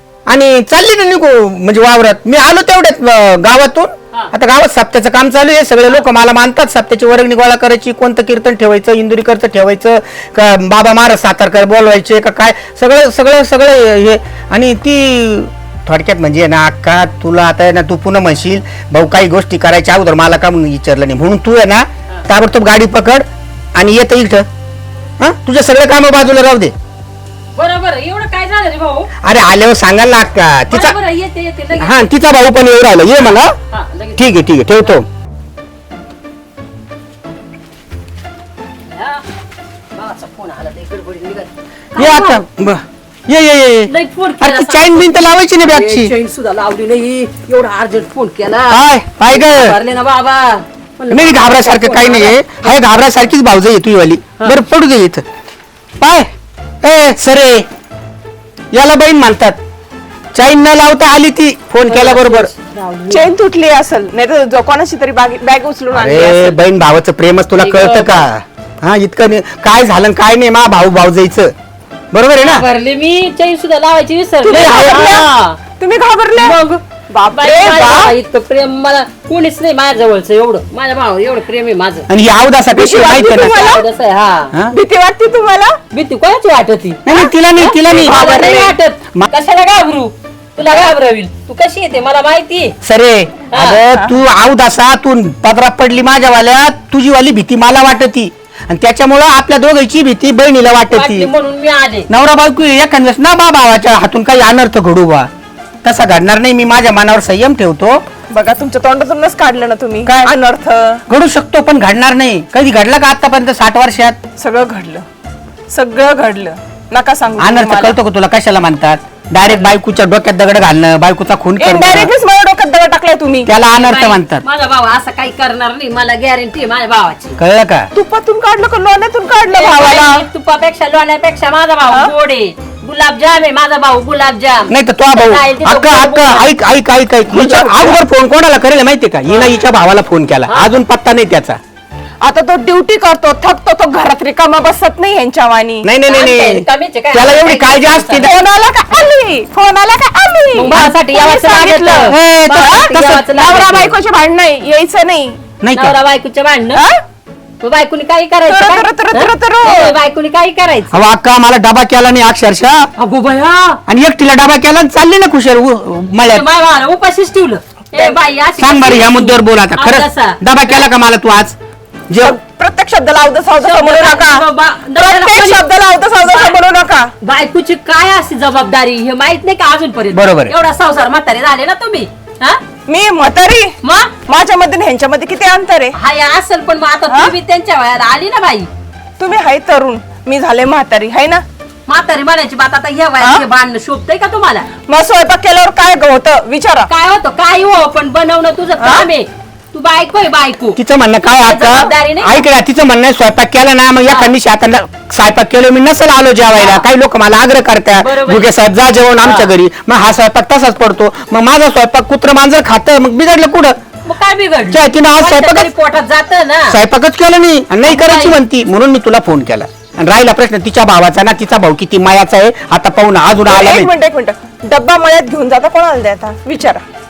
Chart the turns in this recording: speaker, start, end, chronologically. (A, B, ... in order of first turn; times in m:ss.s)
0:00.3-0:24.4 A
0:25.2-0:26.7 A
0:27.5-0:29.1 B
0:29.2-0:31.0 A
0:30.7-0:32.2 B
0:31.7-0:33.5 A
0:33.7-0:34.3 B
0:34.2-0:35.0 A
0:38.8-0:39.2 B
0:39.9-0:42.4 B
0:42.0-0:46.1 A
0:43.9-0:48.8 B
0:48.7-0:49.8 A
0:49.3-0:52.8 B
0:51.1-0:55.2 A
0:56.0-0:56.3 A
0:56.8-0:57.6 A
0:58.7-0:59.6 A
1:00.3-1:02.5 A
1:01.9-1:03.3 B
1:03.1-1:06.6 C
1:05.9-1:11.5 A
1:07.6-1:08.3 B
1:12.1-1:12.6 A
1:12.4-1:15.6 B
1:14.4-1:16.6 C
1:14.5-1:15.2 A
1:16.3-1:22.1 B
1:17.1-1:18.1 C
1:22.1-1:23.6 A
1:22.7-1:23.8 C
1:23.1-1:24.5 B
1:24.7-1:25.8 C
1:25.9-1:32.7 B
1:27.0-1:29.3 A
1:28.0-1:28.8 C
1:32.8-1:41.3 A
1:33.5-1:33.8 B
1:40.9-1:42.1 B
1:42.1-1:45.3 A
1:45.8-1:48.0 A
1:48.3-1:51.0 C
1:50.0-1:50.3 A
1:51.1-1:54.2 A
1:54.4-1:55.0 C
1:55.7-1:58.0 C
1:57.4-2:02.1 A
2:01.6-2:03.5 C
2:03.4-2:04.4 A
2:03.7-2:07.4 B
2:07.4-2:07.9 A
2:07.9-2:10.2 C
2:09.5-2:16.5 B
2:14.7-2:21.6 A
2:17.4-2:18.0 C
2:19.3-2:19.6 B
2:22.2-2:25.9 C
2:25.8-2:28.3 A
2:26.0-2:28.3 B
2:28.2-2:35.4 C
2:30.5-2:34.0 B
2:32.1-2:33.2 A
2:35.6-2:36.0 A
2:35.7-2:36.8 B
2:37.6-2:41.0 B
2:38.4-2:40.0 C
2:40.9-2:42.9 A
2:43.0-2:43.8 B
2:43.9-2:46.4 A
2:46.2-2:50.9 B
2:48.6-2:51.6 A
2:52.1-2:52.4 A
2:52.2-2:54.4 C
2:53.6-2:56.6 B
2:55.0-2:57.1 C
2:57.2-3:02.6 B
3:00.1-3:00.5 A
3:02.9-3:03.7 C
3:03.8-3:04.1 B
3:04.2-3:05.9 C
3:05.9-3:08.7 B
3:07.1-3:07.3 C
3:09.2-3:11.4 C
3:11.9-3:14.7 B
3:14.8-3:16.9 C
3:16.9-3:20.8 B
3:18.8-3:19.1 C
3:20.8-3:33.8 A
3:21.4-3:22.4 B
3:24.0-3:24.3 B
3:26.5-3:26.8 B
3:28.0-3:28.5 B
3:29.2-3:29.5 B
3:34.0-3:36.8 B
3:34.7-3:35.7 A
3:36.7-3:43.9 A
3:37.8-3:38.4 B
3:43.5-3:46.8 C